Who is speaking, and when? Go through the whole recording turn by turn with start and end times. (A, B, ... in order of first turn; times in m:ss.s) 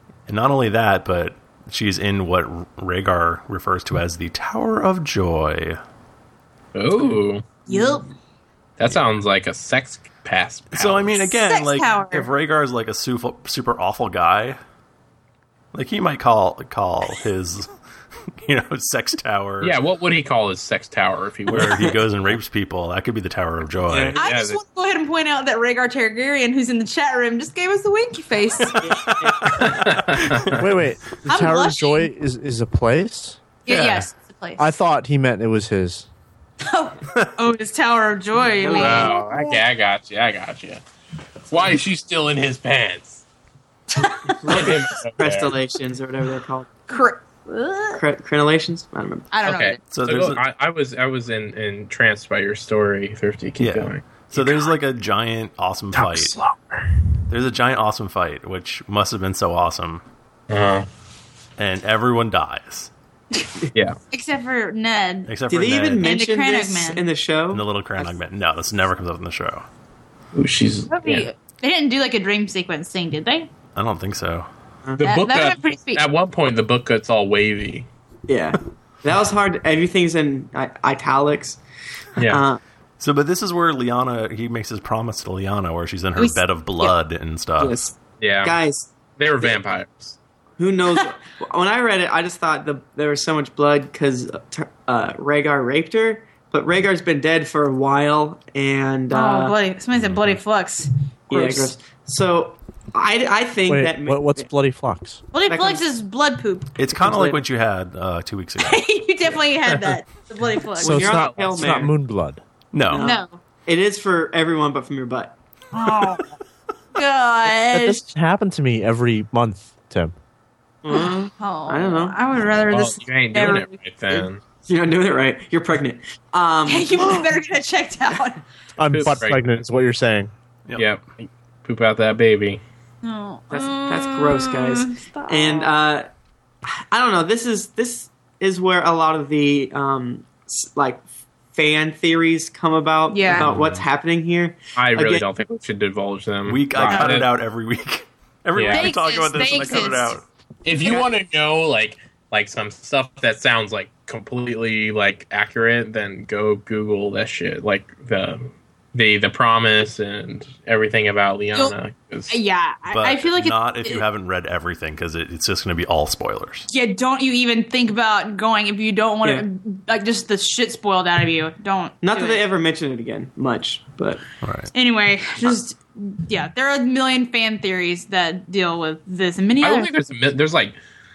0:00.3-0:05.8 A
0:06.7-0:07.4 B
0:07.7-0:08.1 C
0:07.7-0:08.0 D
0:08.8-0:11.2 B
0:10.7-0:14.6 A
0:11.2-0:12.3 C
0:15.7-0:17.7 A
0:18.3-0:19.8 A
0:19.6-0:21.9 B
0:21.5-0:24.2 A
0:21.6-0:21.9 D
0:23.9-0:24.6 B
0:24.2-0:28.8 C
0:28.8-0:29.6 D
0:28.9-0:30.6 A
0:29.5-0:30.5 B
0:30.5-0:33.4 E
0:31.3-0:32.1 C
0:33.7-0:34.6 C
0:33.7-0:34.1 A
0:34.6-0:36.1 E
0:36.6-0:39.6 C
0:38.5-0:39.2 D
0:38.7-0:40.8 B
0:41.5-0:43.2 B
0:43.9-0:44.8 C
0:44.4-0:46.7 D
0:44.5-0:45.5 B
0:46.9-0:48.0 C
0:47.9-0:49.3 D
0:49.3-0:49.8 C
0:49.4-0:54.2 B
0:49.9-0:50.4 A
0:53.6-0:56.4 A
0:55.9-0:56.3 B
0:57.3-1:00.0 A
1:00.5-1:00.9 B
1:01.6-1:02.9 A
1:04.1-1:05.3 C
1:05.3-1:06.1 A
1:05.5-1:08.1 D
1:06.0-1:07.0 C
1:07.5-1:09.6 A
1:10.3-1:11.3 B
1:10.9-1:13.5 C
1:13.8-1:14.5 A
1:15.0-1:17.9 B
1:15.0-1:16.0 C
1:18.3-1:21.6 D
1:22.2-1:22.4 B
1:22.2-1:22.6 D
1:23.0-1:27.8 A
1:26.2-1:26.9 C
1:27.6-1:28.9 D
1:28.2-1:28.6 B
1:29.2-1:30.2 B
1:30.6-1:39.6 D
1:39.1-1:41.7 C
1:40.0-1:40.4 A
1:41.3-1:44.5 D
1:43.7-1:45.3 E
1:45.3-1:46.7 C
1:45.5-1:45.8 D
1:46.8-1:48.8 A
1:46.9-1:47.4 D
1:48.6-1:51.2 C
1:50.8-1:52.4 E
1:50.8-1:52.0 D
1:51.4-1:51.7 B
1:52.7-1:53.1 A
1:52.9-1:55.4 D
1:53.0-1:53.4 C
1:55.7-1:56.4 C
1:57.0-1:58.0 C
1:57.7-2:00.1 E
2:00.8-2:02.2 D
2:00.9-2:04.2 C
2:02.7-2:04.4 B
2:04.7-2:07.2 D
2:06.7-2:08.4 C
2:08.8-2:10.3 E
2:08.9-2:09.6 B
2:10.8-2:12.6 B
2:13.0-2:15.7 C
2:13.5-2:16.1 D
2:16.7-2:25.2 D
2:23.1-2:23.5 C
2:23.4-2:23.8 A
2:24.8-2:27.3 B
2:26.5-2:30.2 A
2:28.6-2:28.9 B
2:28.7-2:30.1 C
2:30.6-2:42.4 B
2:42.3-2:44.0 C
2:42.9-2:46.7 A
2:46.7-2:52.4 C
2:52.0-2:54.2 D
2:54.4-2:54.7 A
2:54.7-2:59.9 C
2:59.6-3:00.8 B